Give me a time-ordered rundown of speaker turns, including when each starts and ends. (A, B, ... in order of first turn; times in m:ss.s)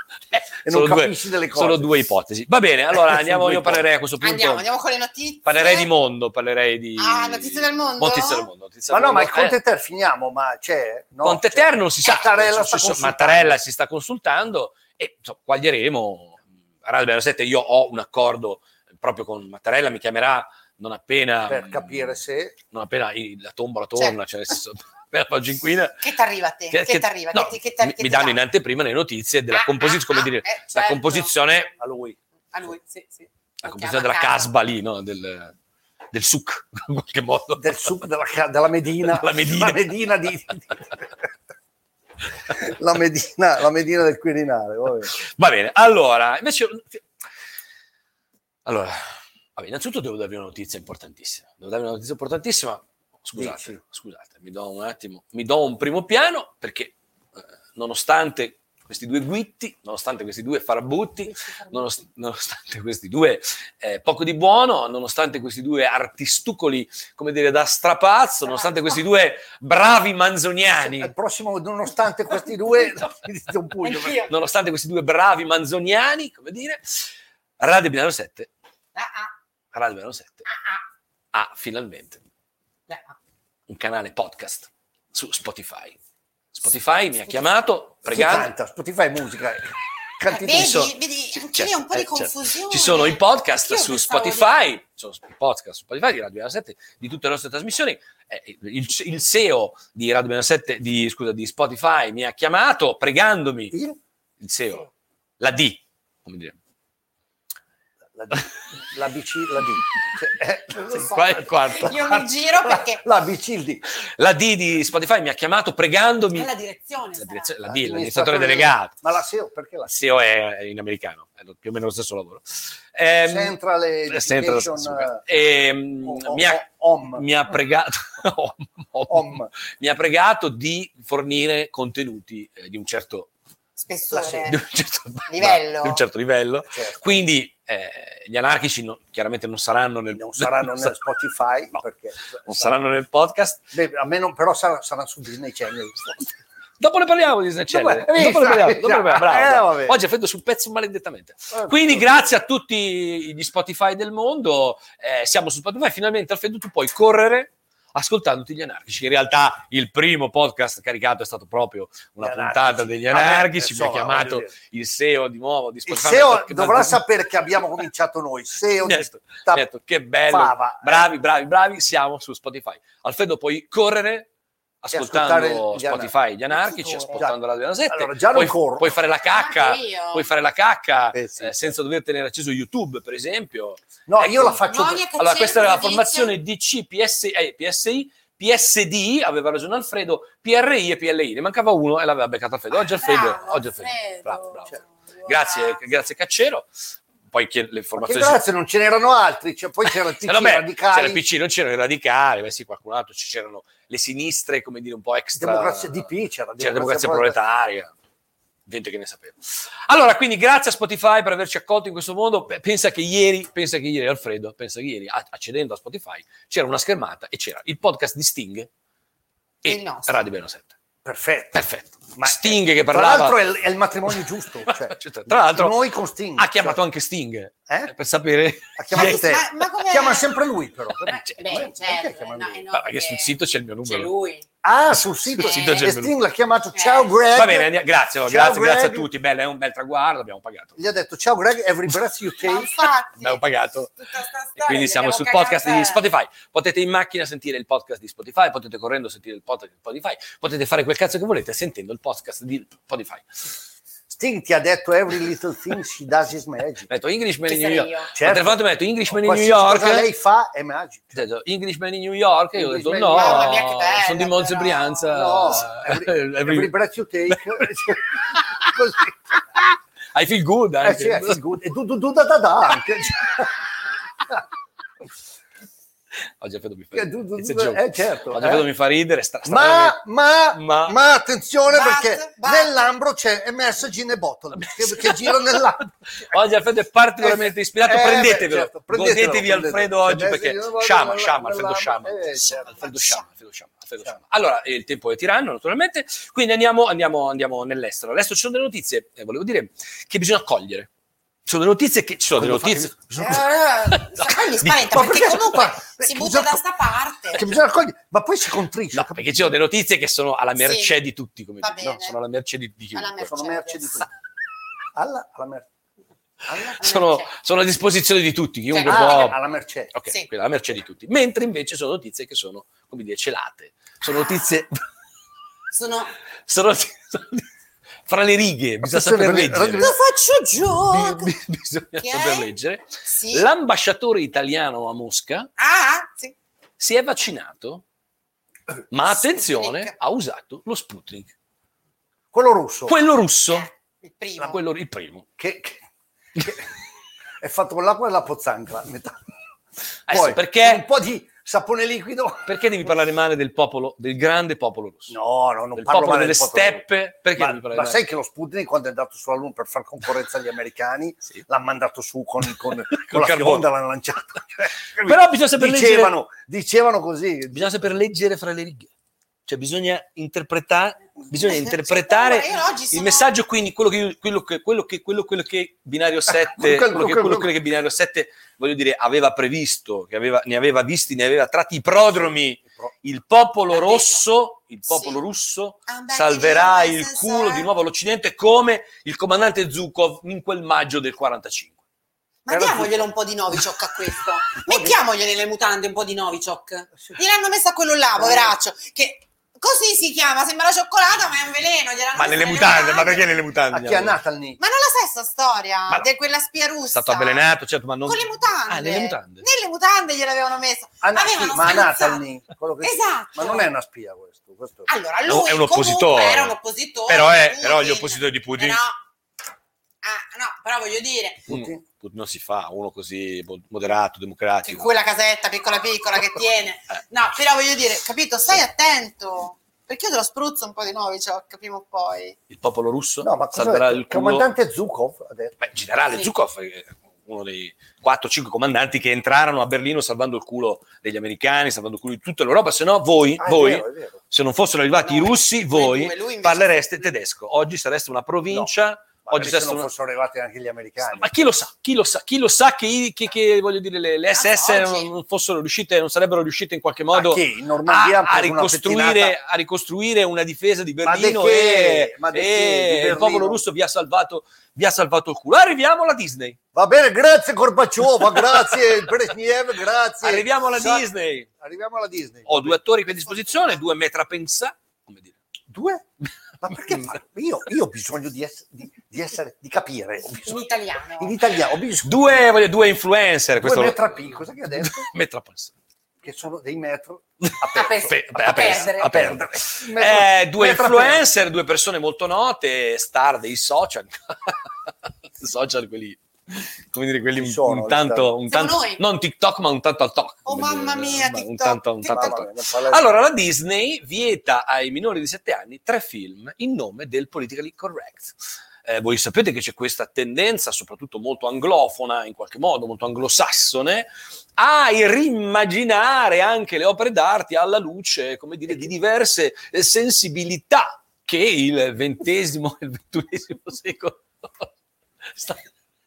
0:00.3-0:04.6 A
0:00.6-0:01.9 B
0:02.9-0:03.8 B
0:04.2-0:05.9 C
0:05.5-0:09.6 A
0:07.0-0:08.5 C
0:08.9-0:13.6 B
0:11.2-0:22.1 A
0:21.5-0:22.6 B
0:22.7-0:26.0 A
0:26.0-0:28.4 C
0:26.7-0:31.7 A
0:29.5-0:31.3 C
0:31.8-0:32.2 B
0:32.5-0:34.5 C
0:33.6-0:35.5 A
0:36.1-0:37.9 A
0:37.6-0:41.0 B
0:39.1-0:39.9 A
0:42.5-0:45.1 B
0:45.2-0:47.0 A
0:48.6-0:49.0 A
0:49.6-0:57.0 A
0:53.4-0:53.8 B
0:57.8-1:11.1 A
1:01.3-1:01.8 C
1:08.5-1:08.9 C
1:10.8-1:14.2 B
1:13.8-1:14.3 C
1:14.1-1:16.8 A
1:17.6-1:18.5 A
1:19.0-1:19.3 C
1:19.7-1:20.5 A
1:20.5-1:20.8 C
1:21.3-1:22.2 A
1:22.9-1:23.2 C
1:23.7-1:26.0 A
1:26.5-1:28.5 A
1:28.1-1:30.9 B
1:30.3-1:34.7 C
1:30.5-1:43.7 A
1:43.7-1:44.0 B
1:44.4-1:46.6 A
1:48.2-1:53.8 B
1:50.9-1:52.2 A
1:51.6-1:53.0 C
1:54.0-1:56.5 A
1:56.3-1:57.5 C
1:57.2-1:58.9 A
1:57.7-1:59.9 B
1:59.9-2:03.6 A
2:03.2-2:05.2 B
2:04.1-2:13.3 A
2:06.0-2:07.2 B
2:09.1-2:09.5 B
2:13.8-2:14.6 C
2:14.1-2:14.4 B
2:14.4-2:20.9 A
2:15.3-2:16.0 C
2:16.7-2:17.0 B
2:20.1-2:22.7 B
2:22.5-2:23.6 A
2:23.7-2:26.3 B
2:26.8-2:47.0 A
2:27.7-2:30.0 B
2:31.5-2:32.3 B
2:42.2-2:44.6 B
2:45.9-2:49.7 B
2:48.8-2:54.3 A
2:50.3-2:51.1 B
2:54.8-3:14.7 A
2:54.9-2:56.1 B
2:56.6-2:57.2 C
2:57.1-2:57.4 B
2:57.9-2:58.9 B
2:59.3-3:00.3 C
3:01.1-3:01.7 B
3:04.1-3:05.0 B
3:04.6-3:06.3 C
3:12.8-3:15.8 C
3:15.2-3:16.7 A
3:17.3-3:18.4 A
3:18.0-3:21.2 B
3:19.9-3:26.0 A
3:25.4-3:27.4 B
3:26.6-3:27.9 A
3:28.7-3:38.7 A
3:39.6-3:40.7 A
3:39.6-3:40.2 C
3:41.0-3:46.8 B
3:41.5-3:43.4 A
3:44.1-3:45.8 A
3:46.4-3:49.3 A
3:48.8-3:52.6 B
3:48.9-3:50.3 C
3:51.0-3:51.7 A
3:51.1-3:54.5 C
3:52.7-3:54.1 A
3:54.6-3:57.7 B
3:55.1-3:56.2 A
3:55.4-3:55.9 C
3:56.7-3:57.1 C
3:57.3-4:00.8 A
3:58.2-3:59.1 B
4:00.8-4:02.7 B
4:02.4-4:03.4 C
4:03.1-4:03.9 A
4:04.0-4:06.0 C
4:04.6-4:13.2 A
4:14.1-4:16.9 B
4:16.9-4:20.1 A
4:17.5-4:18.1 C
4:18.2-4:21.2 B
4:21.2-4:26.7 A
4:22.6-4:23.6 B
4:23.1-4:25.7 C
4:25.2-4:29.2 B
4:27.3-4:28.7 A
4:29.6-4:31.4 A
4:30.8-4:33.6 B
4:36.4-4:40.0 A
4:37.0-4:38.7 B
4:39.5-4:45.9 B
4:40.5-4:41.0 A
4:41.7-4:42.7 C
4:44.6-4:45.6 A
4:46.2-5:00.9 A
4:47.2-4:52.8 B
4:52.4-4:53.2 C
5:01.5-5:05.4 A
5:02.4-5:02.9 B
5:03.2-5:07.4 C
5:04.9-5:06.6 B
5:07.3-5:09.5 B
5:08.9-5:13.3 A
5:10.6-5:11.0 C
5:11.6-5:12.2 C
5:13.0-5:14.0 C
5:13.3-5:14.1 B
5:15.0-5:15.7 B
5:16.5-5:16.8 B
5:16.7-5:19.4 A
5:16.8-5:17.3 C
5:18.7-5:19.4 C
5:18.9-5:19.9 B
5:19.9-5:24.8 A
5:25.7-5:26.1 C
5:26.5-5:27.5 A
5:28.1-5:29.9 A
5:28.8-5:30.0 B
5:29.8-5:31.4 C
5:30.9-5:35.5 A
5:32.0-5:32.5 C
5:33.1-5:33.5 C
5:35.6-5:36.4 C
5:36.8-5:37.8 A
5:38.9-5:41.3 A
5:39.1-5:39.9 C
5:42.3-5:43.0 B
5:42.9-5:43.7 A
5:43.5-5:44.6 C
5:44.4-5:45.3 A
5:45.4-5:45.8 B
5:46.4-5:46.7 B
5:47.4-5:49.2 B
5:50.1-5:50.8 A
5:50.1-5:52.5 B
5:52.5-5:55.2 A
5:55.1-5:56.8 B
5:55.8-5:58.0 A
5:57.4-6:07.9 B
6:02.7-6:03.7 A
6:05.0-6:06.2 A
6:07.5-6:08.9 A
6:09.5-6:31.8 A
6:11.3-6:13.3 C
6:16.5-6:17.5 B
6:22.6-6:22.9 B
6:23.7-6:24.2 C
6:24.9-6:25.2 C
6:25.9-6:27.7 C
6:32.5-6:43.3 C
6:32.5-6:33.1 B
6:34.6-6:35.0 B
6:38.2-6:38.5 B
6:42.2-6:44.2 A
6:43.7-6:44.6 B
6:44.6-6:47.5 C
6:46.9-6:49.4 A
6:48.1-6:52.2 C
6:51.0-6:54.9 B
6:52.8-6:53.7 C
6:54.9-6:59.0 C
6:55.3-6:56.6 A
6:57.1-6:58.8 A
7:00.0-7:01.5 C
7:01.5-7:01.8 B
7:01.5-7:04.9 A
7:04.6-7:12.4 C
7:12.5-7:14.5 A
7:13.2-7:15.5 B
7:15.6-7:29.9 A
7:23.4-7:24.2 B
7:25.0-7:26.8 C
7:29.2-7:31.3 B
7:31.0-7:46.6 A
7:34.3-7:35.1 C
7:37.1-7:39.4 B
7:41.0-7:43.6 B
7:46.7-7:51.1 B
7:50.2-7:51.5 A
7:51.6-7:52.8 B
7:52.5-7:55.3 A
7:53.3-7:53.8 C
7:55.7-7:56.1 B
7:56.6-8:02.1 B
8:00.4-8:01.4 C
8:02.0-8:05.7 A
8:03.6-8:05.1 B
8:06.2-8:11.2 B
8:07.4-8:14.6 A
8:07.8-8:09.3 C
8:15.4-8:44.7 A
8:17.4-8:18.3 B
8:18.5-8:19.0 C
8:20.4-8:22.4 C
8:22.1-8:23.1 B
8:45.3-8:45.6 A